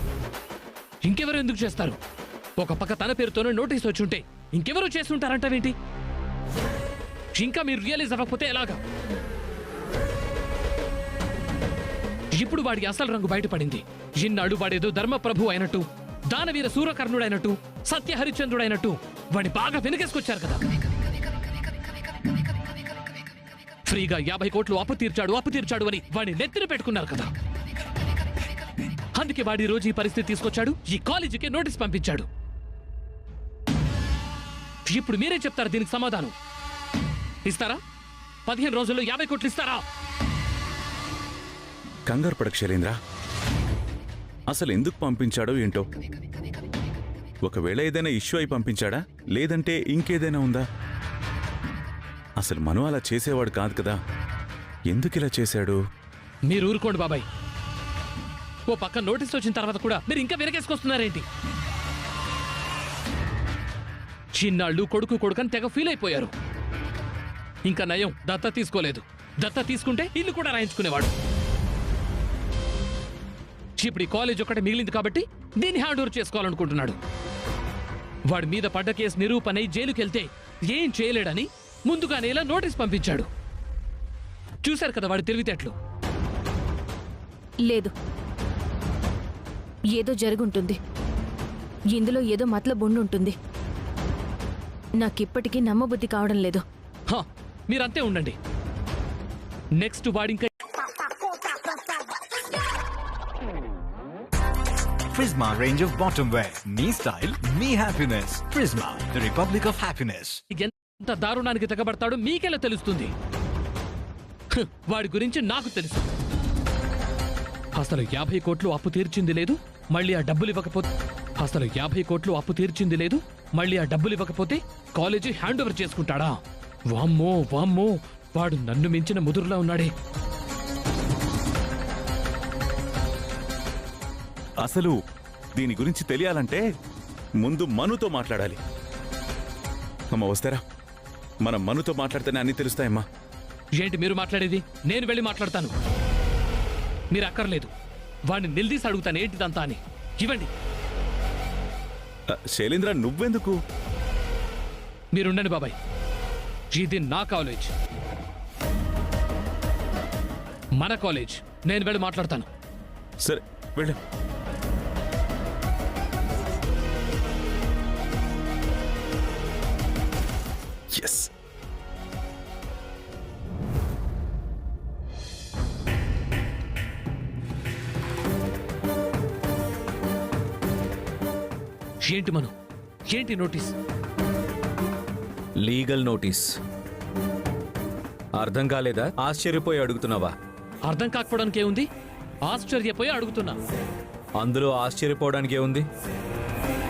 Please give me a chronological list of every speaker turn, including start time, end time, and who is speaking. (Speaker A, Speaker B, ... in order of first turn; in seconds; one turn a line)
Speaker A: 1.0-2.0
Speaker A: 2.6-5.8
Speaker A: 7.3-8.8
Speaker A: 12.3-20.6
Speaker A: 23.9-27.3
Speaker A: 29.1-32.3
Speaker A: 34.9-36.3
Speaker A: 37.5-37.8
Speaker A: 38.5-39.8
Speaker B: 42.1-43.0
Speaker B: 44.5-45.9
Speaker B: 47.4-50.6
Speaker B: 52.4-54.0
Speaker B: 54.9-55.8
Speaker A: 56.5-57.2
Speaker A: 58.7-61.3
Speaker A: 64.3-66.3
Speaker A: 67.6-71.1
Speaker A: 73.8-77.0
Speaker A: 78.3-83.3
Speaker A: 84.6-85.8
Speaker C: 87.6-87.9
Speaker C: 89.9-90.8
Speaker C: 91.9-93.4
Speaker C: 95.0-96.6
Speaker A: 97.1-98.4
Speaker A: 99.8-100.5
Speaker D: 105.1-110.4
Speaker A: 110.5-113.1
Speaker A: 114.5-116.1
Speaker A: 117.8-129.9
Speaker B: 134.6-135.0
Speaker B: 135.6-136.6
Speaker B: 137.4-138.6
Speaker B: 140.1-140.6
Speaker B: 141.4-143.0
Speaker A: 143.8-145.7
Speaker A: 147.1-147.7
Speaker A: 148.3-150.5
Speaker B: 152.3-153.6
Speaker A: 155.1-155.8
Speaker A: 156.7-157.7
Speaker A: 160.8-162.5
Speaker B: 163.2-164.0
Speaker B: 170.9-171.3
Speaker A: 182.1-182.5
Speaker A: 183.1-183.7
Speaker E: 185.6-186.5
Speaker E: 188.4-190.3
Speaker A: 190.9-191.9
Speaker A: 192.5-193.6
Speaker E: 194.4-195.9